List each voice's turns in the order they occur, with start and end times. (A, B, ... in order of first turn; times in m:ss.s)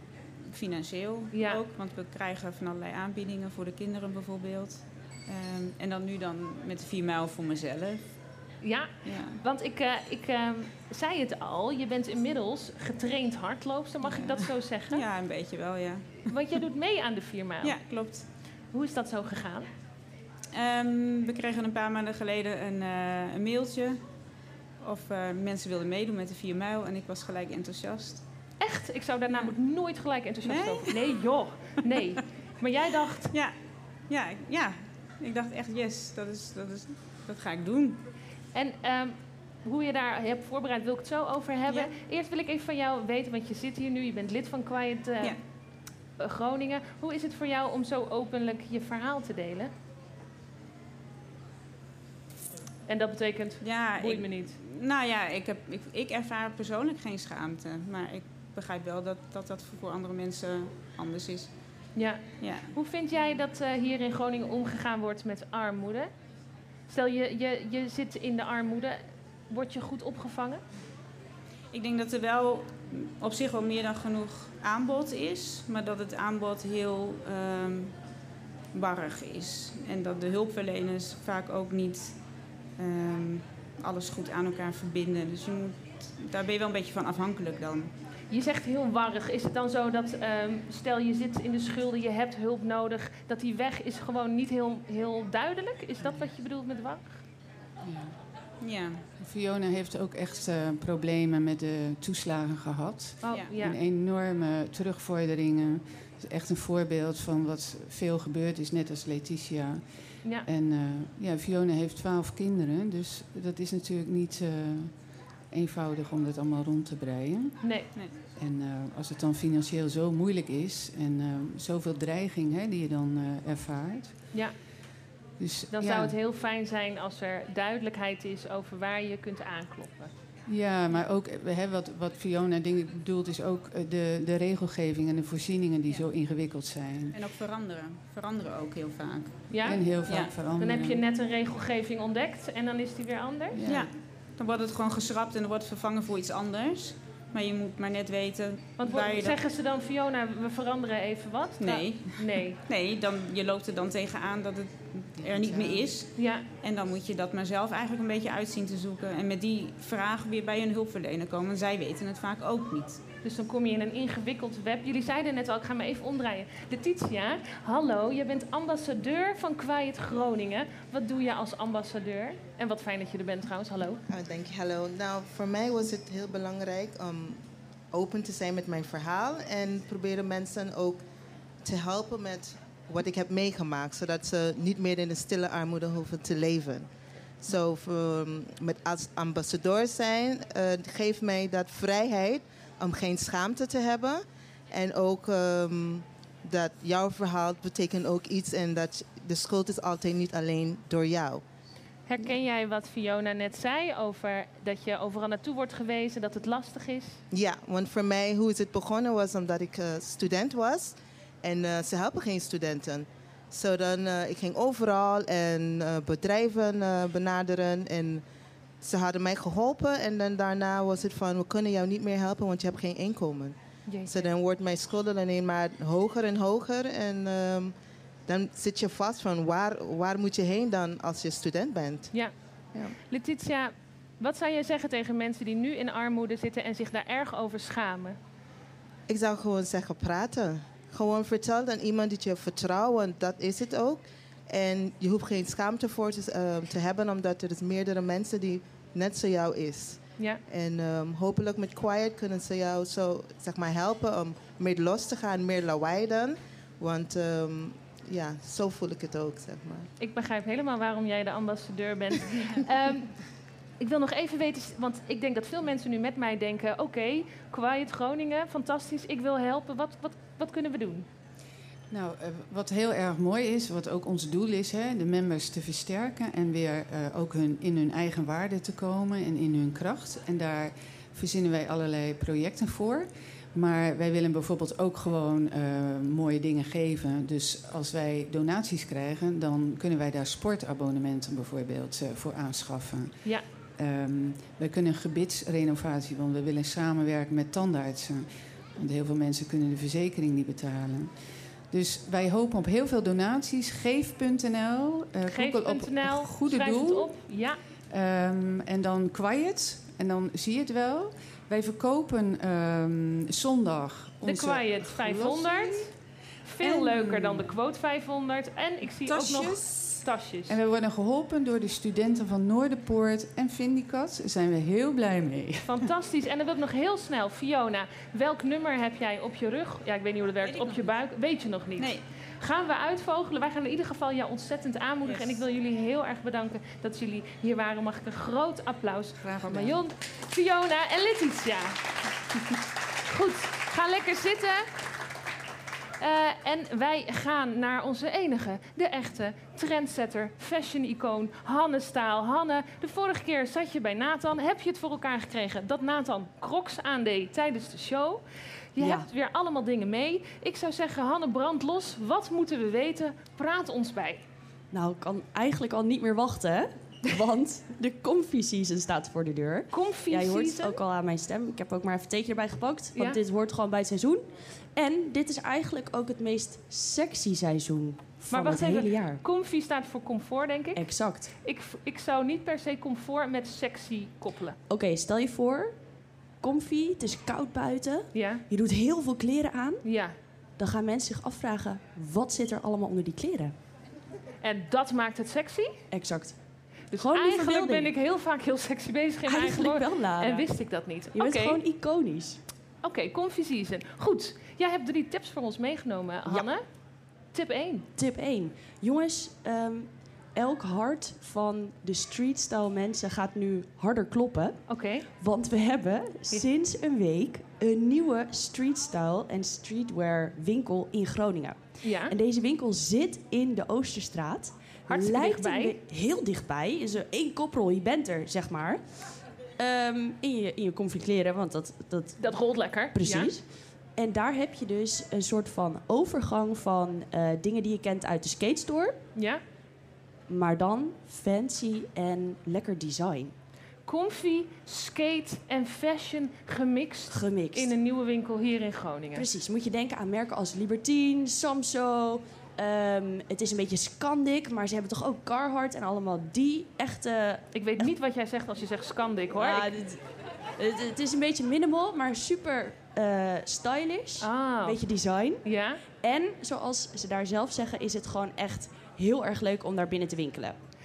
0:00.5-0:08.0 A
0:01.3-0:01.6 B
0:08.6-0:15.0 B
0:09.0-0:09.4 A
0:14.1-0:14.4 A
0:14.9-0:16.2 A
0:16.3-0:17.8 B
0:17.6-0:18.3 A
0:18.7-0:19.7 B
0:20.5-0:24.0 A
0:24.8-0:28.2 A
0:28.6-0:33.3 B
0:30.5-0:30.9 A
0:34.1-0:38.0 A
0:38.5-0:45.4 B
0:41.7-0:41.9 A
0:46.2-0:49.7 B
0:52.9-0:54.6 B
0:53.6-1:01.5 A
1:02.0-1:06.1 B
1:02.4-1:02.7 A
1:06.9-1:10.6 B
1:11.7-1:17.9 A
1:18.7-1:22.2 A
1:22.8-1:27.9 A
1:28.3-1:37.1 B
1:36.0-1:36.3 C
1:37.8-1:38.2 C
1:38.6-1:39.0 A
1:39.2-1:49.9 C
1:43.2-1:43.8 B
1:43.3-1:43.5 A
1:50.4-1:55.0 C
1:55.5-1:57.7 C
1:57.6-1:57.9 B
1:58.4-2:04.2 C
2:05.4-2:06.1 C
2:05.7-2:10.1 B
2:10.5-2:17.2 C
2:17.1-2:20.3 A
2:19.5-2:19.8 B
2:19.6-2:21.0 C
2:20.6-2:23.6 B
2:23.5-2:23.9 C
2:23.6-2:29.4 A
2:28.8-2:32.6 B
2:31.6-2:43.0 A
2:35.2-2:36.0 C
2:36.2-2:36.4 B
2:43.2-2:54.0 B
2:54.1-3:01.0 D
3:01.6-3:06.9 D
3:07.4-3:21.4 D
3:22.1-3:27.2 B
3:27.3-3:38.2 D
3:38.8-3:43.6 D
3:43.9-3:44.2 B
3:44.1-3:47.8 D
3:48.3-3:52.1 D
3:53.0-3:58.2 B
3:59.1-4:19.9 D
4:20.0-4:23.2 B
4:23.8-4:31.1 B
4:31.9-4:53.2 C
4:53.8-5:01.1 C
5:01.7-5:07.1 C
5:05.3-5:07.6 B
5:07.9-5:15.6 C
5:14.2-5:15.9 B
5:16.5-5:20.6 B
5:16.7-5:17.4 C
5:19.1-5:20.0 A
5:20.5-5:25.8 C
5:25.6-5:41.8 B
5:30.4-5:30.9 A
5:35.0-5:35.4 A
5:39.2-5:39.7 A
5:43.1-5:44.6 B
5:46.0-5:58.2 B
5:58.8-6:04.2 B
5:58.8-5:59.1 E
6:04.7-6:19.2 E
6:09.7-6:10.8 B
6:18.3-6:24.6 B
6:20.8-6:21.3 E
6:24.7-6:25.8 E
6:26.4-6:29.8 E
6:28.1-6:28.4 B
6:29.8-6:30.1 B
6:30.6-6:33.5 E
6:34.4-6:35.8 B
6:35.9-6:36.4 E
6:36.9-6:37.9 E
6:36.9-6:41.6 B
6:39.2-6:40.5 E
6:41.1-6:42.4 E
6:42.8-6:46.6 B
6:47.3-6:47.8 B
6:48.0-7:08.8 E
6:54.7-6:55.0 B
7:01.8-7:02.1 B
7:04.9-7:05.8 B
7:09.6-7:13.4 E
7:12.2-7:13.3 B
7:14.0-7:19.0 E
7:19.2-7:19.4 B
7:20.3-7:23.3 E
7:23.9-7:29.2 B
7:27.1-7:27.7 E
7:29.2-7:37.9 E
7:37.5-7:39.7 B
7:39.3-7:40.0 E
7:40.6-7:50.6 E
7:44.2-7:44.8 B
7:45.4-7:45.8 B